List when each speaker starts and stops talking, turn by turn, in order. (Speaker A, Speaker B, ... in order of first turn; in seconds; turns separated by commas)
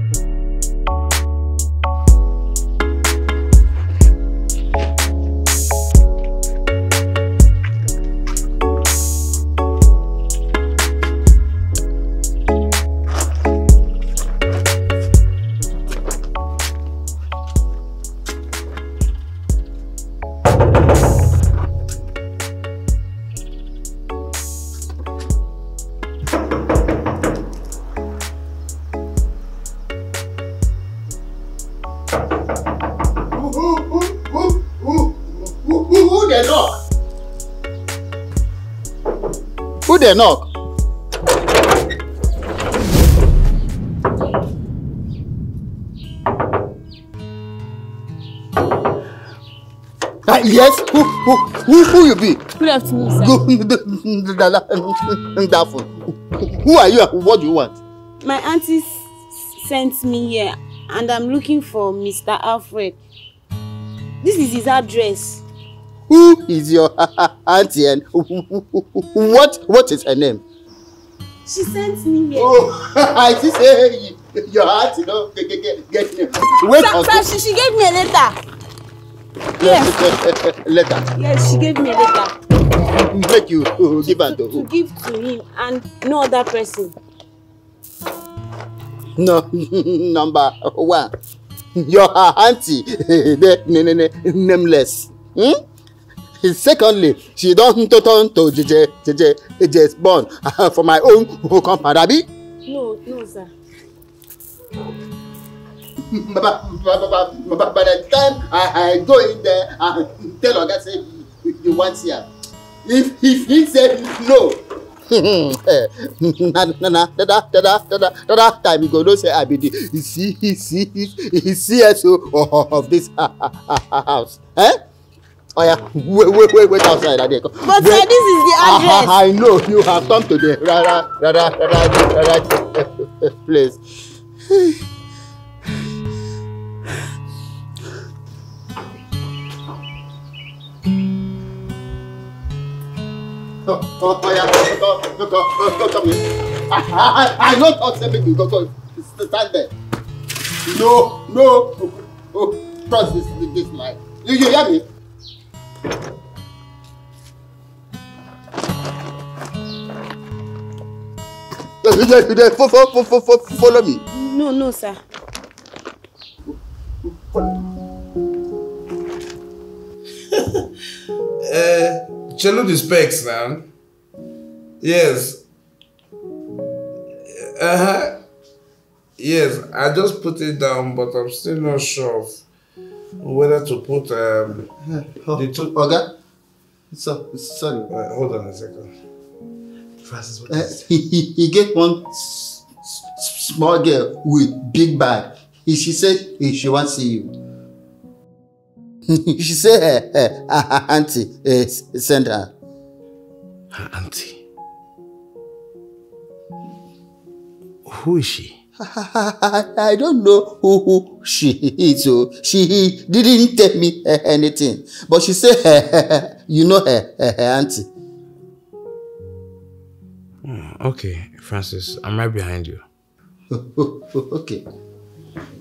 Speaker A: 33.3-36.8, Speaker A: 39.9-40.5, Speaker A: 50.3-52.5, Speaker B: 52.6-53.4, Speaker A: 53.1-57.8, Speaker B: 58.2-63.0, Speaker B: 64.2-65.4, Speaker A: 66.1-70.4, Speaker B: 71.5-72.5, Speaker A: 72.3-77.3, Speaker B: 76.7-78.4, Speaker A: 79.6-81.1, Speaker B: 79.6-79.9, Speaker B: 81.2-82.3, Speaker A: 82.9-84.7, Speaker B: 84.0-87.0, Speaker A: 89.2-91.1, Speaker A: 91.8-95.6, Speaker A: 96.4-102.3, Speaker B: 102.7-103.5, Speaker A: 106.1-112.3, Speaker A: 112.8-124.8, Speaker A: 125.6-133.8, Speaker B: 127.7-129.1, Speaker A: 134.5-134.8, Speaker A: 143.7-149.7, Speaker A: 150.7-154.9, Speaker A: 161.8-164.0, Speaker B: 164.1-165.0, Speaker C: 170.3-170.6, Speaker C: 171.4-173.7, Speaker C: 174.8-175.4, Speaker C: 177.3-178.2, Speaker C: 179.2-182.4, Speaker C: 183.2-184.7, Speaker A: 184.9-186.1, Speaker C: 185.3-185.7, Speaker A: 186.9-187.9, Speaker C: 187.9-188.9, Speaker C: 190.0-190.8, Speaker A: 190.5-197.3, Speaker A: 199.1-202.5, Speaker C: 203.7-204.4, Speaker C: 207.9-208.6, Speaker A: 208.8-217.9, Speaker C: 220.4-222.8, Speaker A: 223.5-224.6